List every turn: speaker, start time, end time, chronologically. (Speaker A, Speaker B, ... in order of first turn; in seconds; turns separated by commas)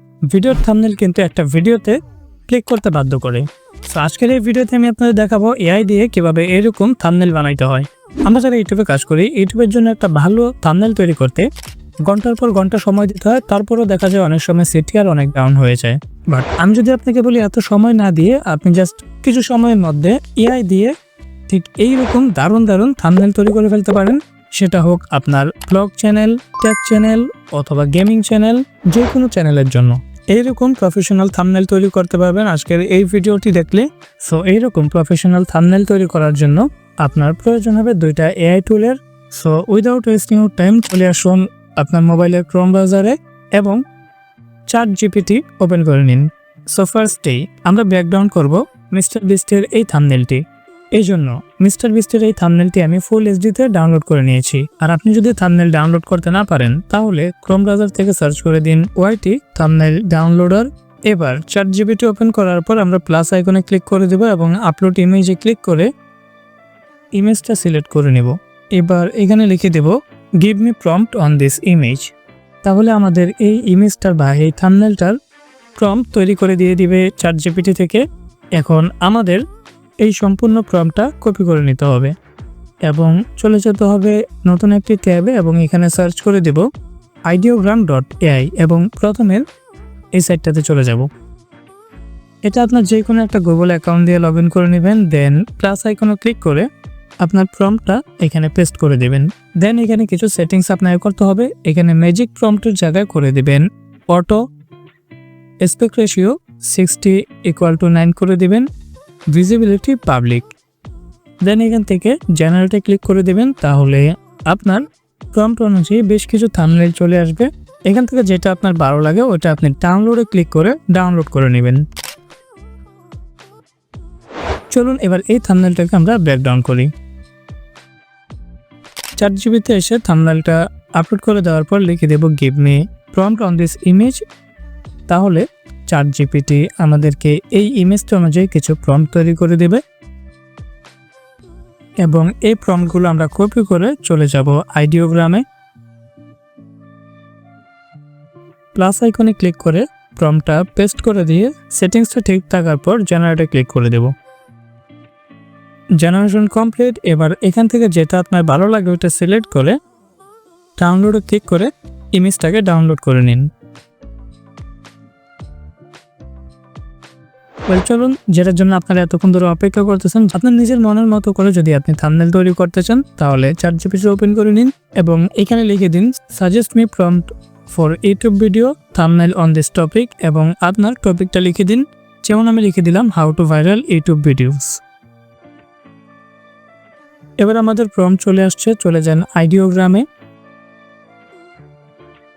Speaker A: 0.3-2.0, Speaker A: 2.5-11.5, Speaker A: 12.1-20.9, Speaker A: 21.5-43.8, Speaker A: 44.7-50.4, Speaker A: 50.9-65.9, Speaker A: 67.1-72.1, Speaker A: 72.6-75.2, Speaker A: 75.8-78.0, Speaker A: 78.5-79.4, Speaker A: 80.0-82.1, Speaker A: 82.8-86.7, Speaker A: 87.3-89.5, Speaker A: 90.1-91.1, Speaker A: 92.4-96.7, Speaker A: 97.2-104.4, Speaker A: 105.6-108.7, Speaker A: 109.3-110.5, Speaker A: 111.4-121.8, Speaker A: 124.7-126.9, Speaker A: 129.2-134.2, Speaker A: 135.1-139.8, Speaker A: 142.0-145.4, Speaker A: 148.7-154.1, Speaker A: 156.0-159.8, Speaker A: 160.8-163.5, Speaker A: 167.7-184.8, Speaker A: 187.4-190.0